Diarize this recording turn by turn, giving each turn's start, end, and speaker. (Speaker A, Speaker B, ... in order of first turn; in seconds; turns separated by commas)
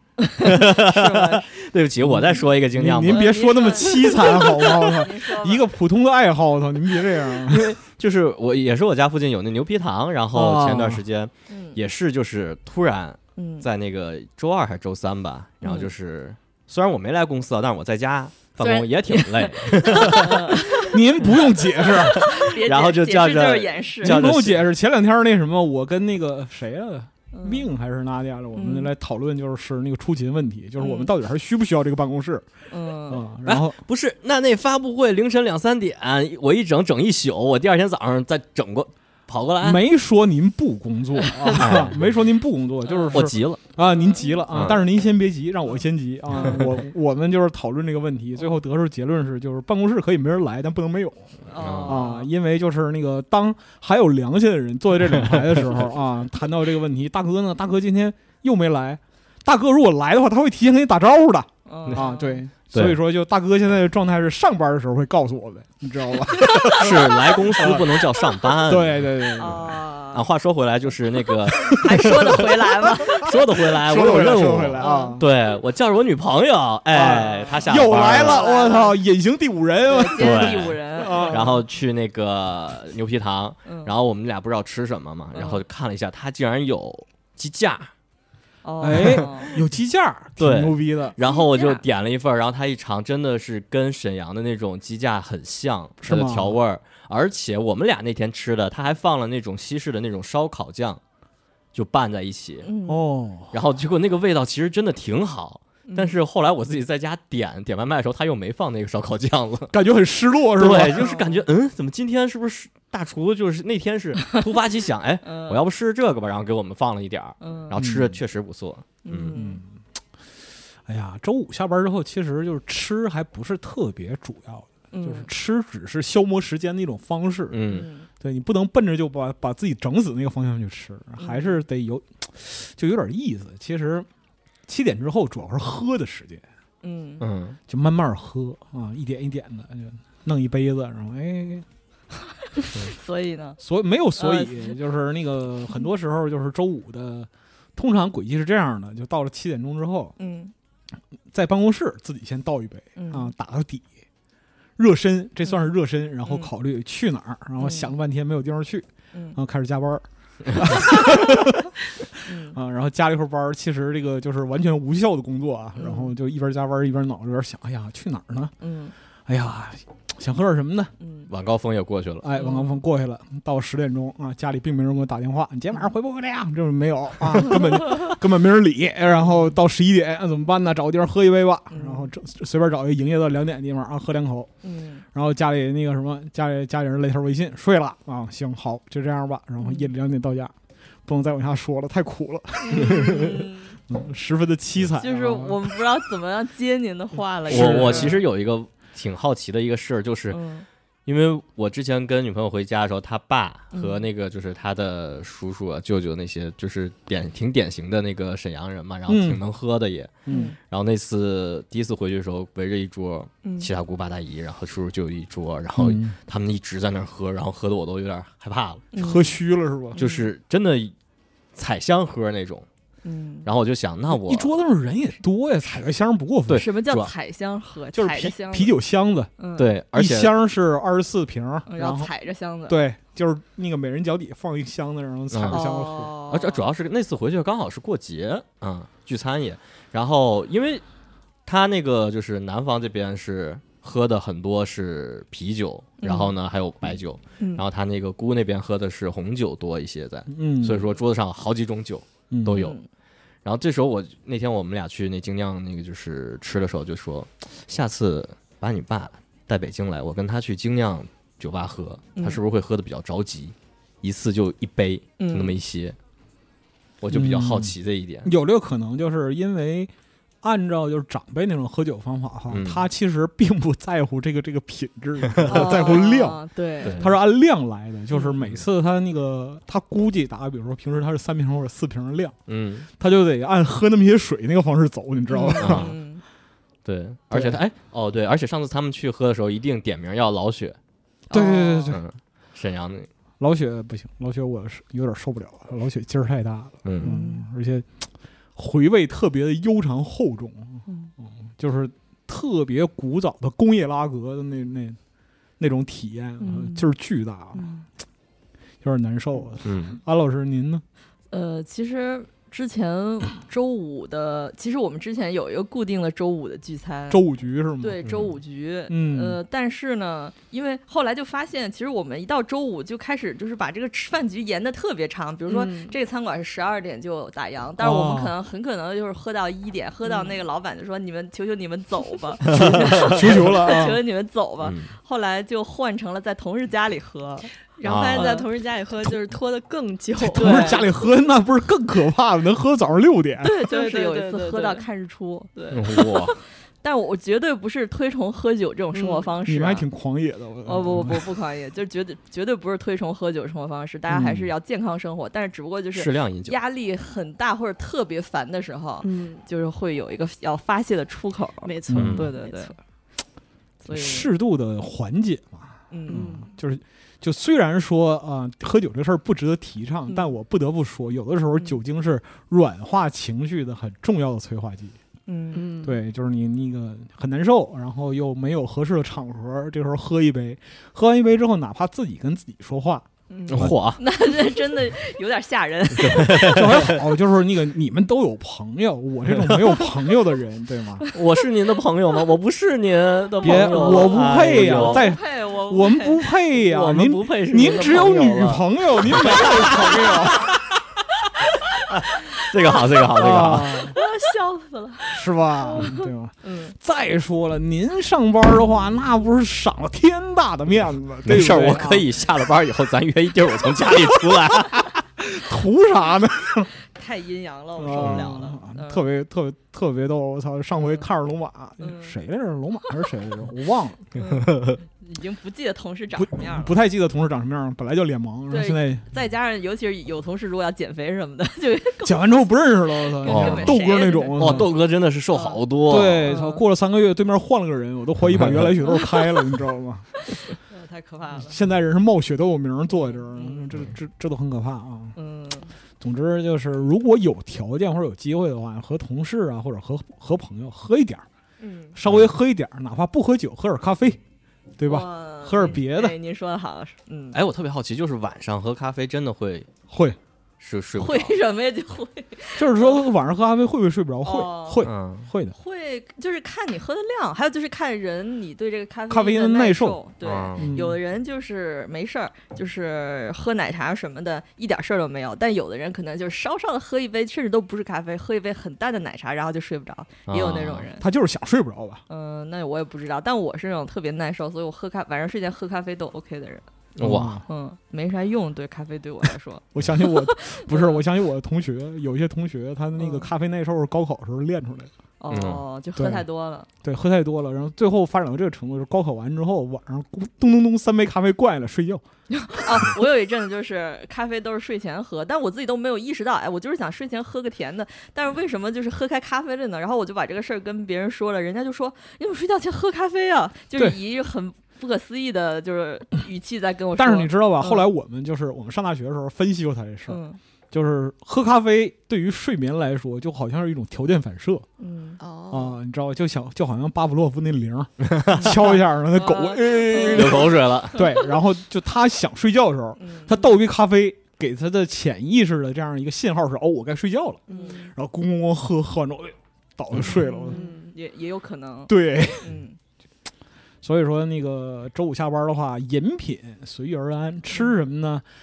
Speaker A: 0.4-1.5, Speaker B: 0.4-3.4, Speaker C: 2.0-7.7, Speaker A: 3.1-5.7, Speaker B: 7.5-20.3, Speaker C: 10.3-11.0, Speaker A: 11.5-11.8, Speaker A: 13.4-13.7, Speaker A: 15.6-15.9, Speaker A: 18.6-24.2, Speaker C: 20.8-22.3, Speaker B: 22.6-24.7, Speaker C: 24.0-32.5, Speaker A: 27.3-27.7, Speaker A: 28.6-28.9, Speaker A: 30.8-31.1, Speaker A: 32.7-33.2, Speaker C: 33.1-33.8, Speaker B: 33.5-39.8, Speaker C: 39.6-69.6, Speaker B: 41.6-42.0, Speaker A: 42.9-43.2, Speaker B: 43.1-43.6, Speaker A: 43.9-44.4, Speaker B: 44.5-44.8, Speaker A: 46.3-46.7, Speaker A: 51.5-52.3, Speaker B: 51.6-52.0, Speaker A: 61.7-62.4, Speaker B: 62.7-63.0, Speaker A: 66.4-66.9, Speaker B: 66.7-72.5, Speaker A: 69.4-70.2, Speaker A: 71.6-73.4, Speaker B: 73.1-78.4, Speaker C: 73.3-75.2, Speaker A: 74.8-75.2, Speaker C: 76.9-81.6, Speaker A: 77.9-79.0, Speaker A: 79.9-81.4, Speaker B: 80.2-87.9, Speaker A: 83.7-83.9, Speaker A: 85.3-85.6, Speaker A: 88.6-89.5, Speaker C: 88.8-91.2, Speaker B: 88.9-89.2, Speaker B: 90.4-101.0, Speaker A: 91.2-91.8, Speaker C: 96.0-96.6, Speaker B: 101.7-102.7, Speaker A: 102.6-103.1, Speaker C: 102.9-103.5, Speaker B: 103.5-109.7, Speaker A: 105.9-106.2, Speaker C: 109.7-111.2, Speaker B: 110.6-119.4, Speaker A: 110.9-111.4, Speaker A: 115.2-115.6, Speaker A: 117.4-117.8, Speaker C: 117.8-118.2, Speaker A: 119.0-119.6, Speaker C: 119.3-119.8, Speaker C: 120.8-134.1, Speaker A: 124.9-125.3, Speaker B: 127.5-127.9, Speaker A: 127.7-128.1, Speaker A: 131.2-131.6, Speaker C: 134.7-136.4, Speaker A: 136.8-137.2, Speaker B: 137.2-137.6, Speaker C: 137.7-141.7, Speaker A: 142.5-143.6, Speaker C: 143.6-150.1, Speaker A: 144.2-144.7, Speaker A: 150.2-150.5, Speaker C: 151.3-153.9, Speaker A: 153.0-153.3, Speaker C: 154.8-161.7, Speaker A: 156.2-156.5, Speaker A: 157.6-157.9, Speaker A: 159.1-159.4, Speaker A: 162.2-162.6, Speaker C: 162.5-168.5, Speaker A: 165.8-166.1, Speaker A: 168.6-168.9, Speaker C: 169.3-170.9, Speaker A: 171.0-171.3, Speaker B: 171.3-172.3, Speaker C: 172.2-184.5, Speaker A: 172.4-172.8, Speaker A: 181.7-182.1, Speaker A: 184.6-185.1, Speaker C: 185.1-195.6, Speaker A: 189.6-189.9, Speaker A: 192.6-193.8, Speaker A: 195.0-198.2, Speaker C: 197.5-198.2, Speaker B: 197.5-200.4, Speaker A: 200.3-200.7, Speaker B: 201.1-218.9, Speaker A: 203.7-204.0, Speaker C: 209.1-209.4, Speaker C: 210.3-210.5, Speaker A: 210.3-210.6, Speaker A: 213.4-213.7, Speaker C: 215.8-216.2, Speaker A: 218.9-219.4, Speaker C: 219.0-220.0, Speaker B: 219.9-220.9, Speaker A: 220.0-220.3, Speaker B: 221.6-222.7, Speaker A: 223.0-223.5, Speaker B: 223.4-224.5, Speaker C: 224.1-226.6, Speaker B: 226.5-227.1, Speaker A: 226.5-228.7, Speaker C: 227.9-229.3, Speaker A: 229.4-229.7, Speaker B: 229.6-230.3, Speaker C: 229.9-232.1, Speaker A: 231.7-232.8, Speaker C: 232.7-236.1, Speaker B: 235.3-235.6, Speaker A: 235.5-236.7, Speaker B: 236.3-240.8, Speaker B: 241.5-252.8, Speaker A: 246.0-246.3, Speaker C: 250.3-250.9, Speaker C: 252.3-252.6, Speaker A: 252.5-252.9, Speaker B: 253.4-266.0, Speaker A: 262.1-262.4, Speaker A: 265.2-265.6, Speaker B: 267.0-268.3, Speaker C: 267.1-282.4, Speaker B: 272.5-272.8, Speaker B: 275.2-275.7, Speaker A: 275.5-277.0, Speaker B: 276.8-277.1, Speaker B: 282.5-282.9, Speaker C: 283.0-285.9, Speaker A: 285.3-286.2, Speaker B: 285.6-285.9, Speaker B: 286.9-290.8, Speaker C: 287.3-287.6, Speaker A: 291.3-291.9, Speaker C: 291.3-292.0, Speaker B: 291.9-293.1, Speaker C: 293.4-305.0, Speaker B: 296.8-297.1, Speaker A: 297.0-297.5, Speaker A: 300.9-301.1, Speaker C: 305.6-307.7, Speaker A: 306.4-306.9, Speaker A: 307.5-307.9, Speaker C: 308.8-310.8, Speaker B: 309.6-310.0, Speaker A: 311.3-317.2, Speaker C: 317.1-318.0, Speaker A: 317.8-337.5, Speaker B: 318.0-318.3, Speaker C: 318.9-319.4, Speaker D: 325.5-325.9, Speaker C: 327.8-328.3, Speaker D: 330.1-330.4, Speaker C: 332.4-334.0, Speaker B: 332.5-333.4, Speaker B: 334.6-334.9, Speaker D: 337.8-340.9, Speaker B: 337.8-338.4, Speaker A: 338.1-338.5, Speaker C: 340.2-343.6, Speaker A: 340.3-340.8, Speaker A: 343.4-349.9, Speaker D: 343.6-344.9, Speaker B: 345.7-346.4, Speaker D: 348.9-349.3, Speaker C: 349.4-351.3, Speaker A: 350.6-362.7, Speaker C: 354.1-354.5, Speaker B: 355.9-356.6, Speaker D: 359.0-359.4, Speaker D: 361.6-362.8, Speaker C: 361.9-362.2, Speaker B: 361.9-362.3, Speaker A: 363.8-364.3, Speaker C: 363.9-375.0, Speaker A: 365.9-366.4, Speaker D: 366.1-366.5, Speaker A: 370.1-370.4, Speaker A: 375.3-375.7, Speaker D: 375.5-376.0, Speaker C: 375.8-383.8, Speaker A: 383.3-386.6, Speaker B: 383.5-384.0, Speaker B: 386.0-387.0, Speaker C: 386.4-391.1, Speaker B: 389.3-389.9, Speaker B: 391.1-395.1, Speaker C: 393.4-400.5, Speaker A: 393.4-396.2, Speaker B: 396.5-400.7, Speaker B: 401.9-403.9, Speaker C: 403.1-404.0, Speaker A: 403.9-406.8, Speaker C: 405.1-412.1, Speaker B: 411.2-414.9, Speaker C: 414.3-416.7, Speaker A: 416.9-419.1, Speaker C: 417.8-424.1, Speaker B: 418.0-418.3, Speaker A: 420.8-421.1, Speaker A: 421.8-422.1, Speaker A: 424.1-426.8, Speaker B: 424.1-424.8, Speaker C: 426.1-429.1, Speaker A: 428.5-432.3, Speaker C: 432.0-434.7, Speaker A: 433.2-434.7, Speaker B: 433.3-433.8, Speaker B: 434.4-436.3, Speaker A: 435.3-435.6, Speaker C: 435.9-440.1, Speaker A: 436.2-436.6, Speaker B: 438.3-438.6, Speaker A: 438.9-439.3, Speaker A: 440.3-441.6, Speaker C: 441.4-445.1, Speaker A: 443.0-443.7, Speaker A: 445.1-445.7, Speaker C: 446.0-451.2, Speaker A: 451.6-452.0, Speaker C: 451.9-454.2, Speaker C: 454.8-456.1, Speaker A: 454.9-457.4, Speaker B: 457.3-459.7, Speaker C: 459.9-460.2, Speaker B: 460.6-461.3, Speaker A: 461.0-463.0, Speaker C: 462.6-465.6, Speaker A: 464.2-464.8, Speaker B: 464.8-465.3, Speaker A: 465.6-481.0, Speaker C: 469.1-470.0, Speaker B: 470.2-470.7, Speaker C: 470.6-471.0, Speaker B: 480.3-480.9, Speaker C: 481.0-482.0, Speaker A: 482.1-486.6, Speaker B: 487.0-487.4, Speaker C: 487.0-487.4, Speaker A: 487.5-491.0, Speaker C: 489.7-494.9, Speaker A: 493.0-493.3, Speaker A: 495.2-496.7, Speaker B: 495.3-495.6, Speaker C: 496.0-496.2, Speaker C: 496.8-502.0, Speaker A: 502.3-517.9, Speaker C: 517.0-524.6, Speaker A: 520.1-520.4, Speaker A: 524.8-525.2, Speaker D: 525.2-525.8, Speaker C: 525.5-540.6, Speaker B: 528.0-528.6, Speaker A: 529.1-531.3, Speaker B: 530.0-531.0, Speaker A: 533.0-533.4, Speaker D: 537.5-537.9, Speaker A: 537.5-537.8, Speaker A: 540.0-542.8, Speaker D: 540.5-540.9, Speaker C: 541.9-542.6, Speaker C: 543.8-548.2